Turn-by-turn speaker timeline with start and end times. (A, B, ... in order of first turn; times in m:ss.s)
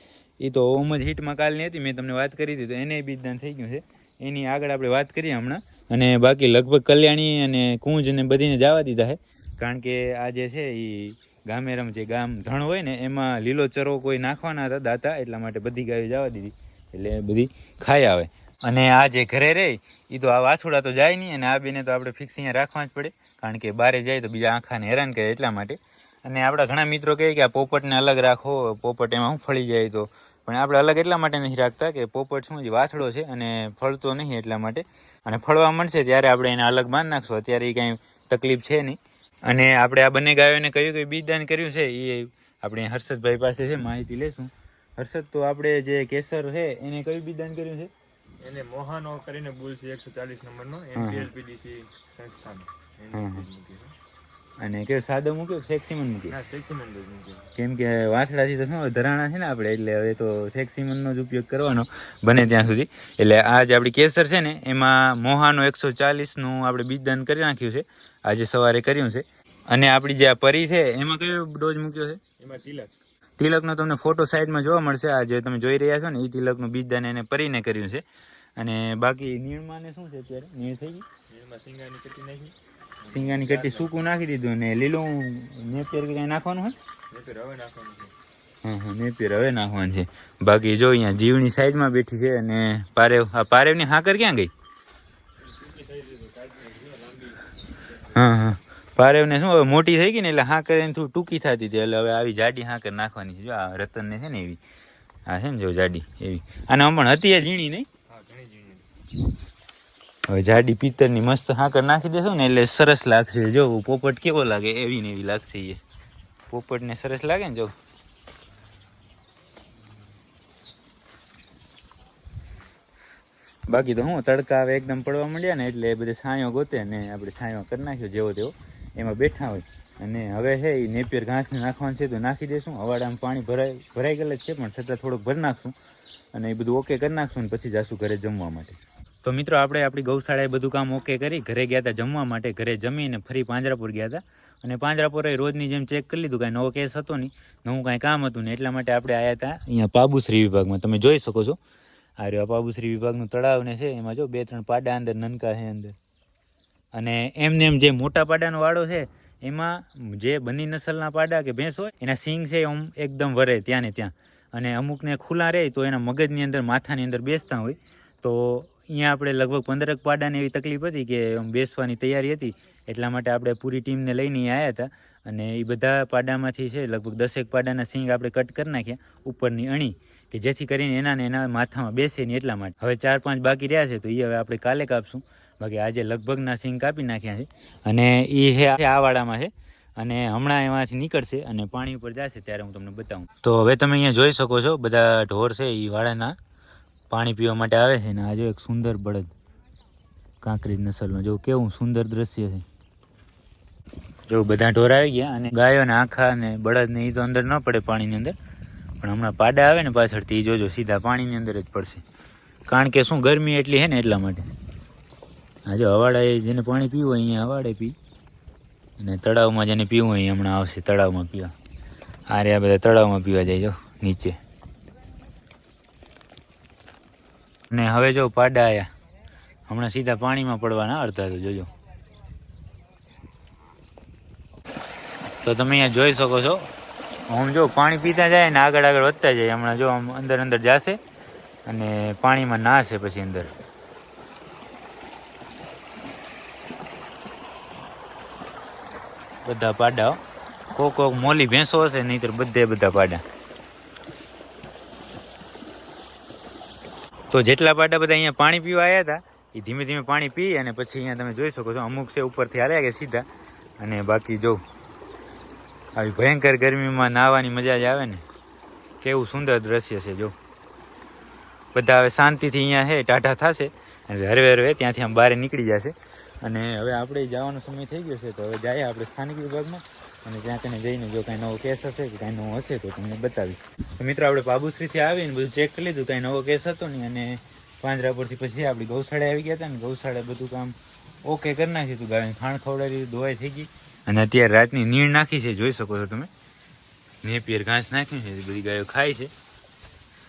0:00.4-0:47.9 A
0:48.4-0:53.9 B
0:51.0-0:51.3 A
0:53.1-0:53.5 A
0:54.6-0:56.4 A
0:56.3-0:57.5 B
0:57.5-1:12.2 A
1:12.4-1:13.0 B
1:13.4-1:18.0 A
1:18.6-1:21.0 A
1:21.3-1:23.9 B
1:23.1-1:26.8 A
1:27.1-1:28.1 B
1:28.6-1:34.5 A
1:35.4-1:37.5 B
1:38.1-1:44.6 A
1:45.3-1:47.9 A
1:48.1-1:48.9 B
1:50.3-1:55.8 A
1:56.5-1:57.7 A
2:03.7-2:15.8 A
2:16.3-2:31.6 A
2:32.2-2:36.0 A
2:36.9-3:16.4 A
3:17.1-3:19.3 A
3:20.4-3:22.6 A
3:24.3-3:28.3 A
3:29.0-3:32.0 A
3:32.7-3:34.4 A
3:35.6-3:38.0 A
3:39.0-3:41.5 A
3:42.3-3:44.4 A
3:47.7-3:48.9 A
3:49.7-3:51.7 A
3:55.4-3:56.7 A
3:57.3-4:01.0 A
4:01.7-4:03.5 A
4:09.4-4:10.2 A
4:10.8-4:13.2 A
4:17.3-4:23.2 A
4:23.8-4:24.6 A
4:26.0-4:28.2 A
4:29.0-4:30.3 A
4:31.7-4:56.3 A
4:57.2-4:59.3 A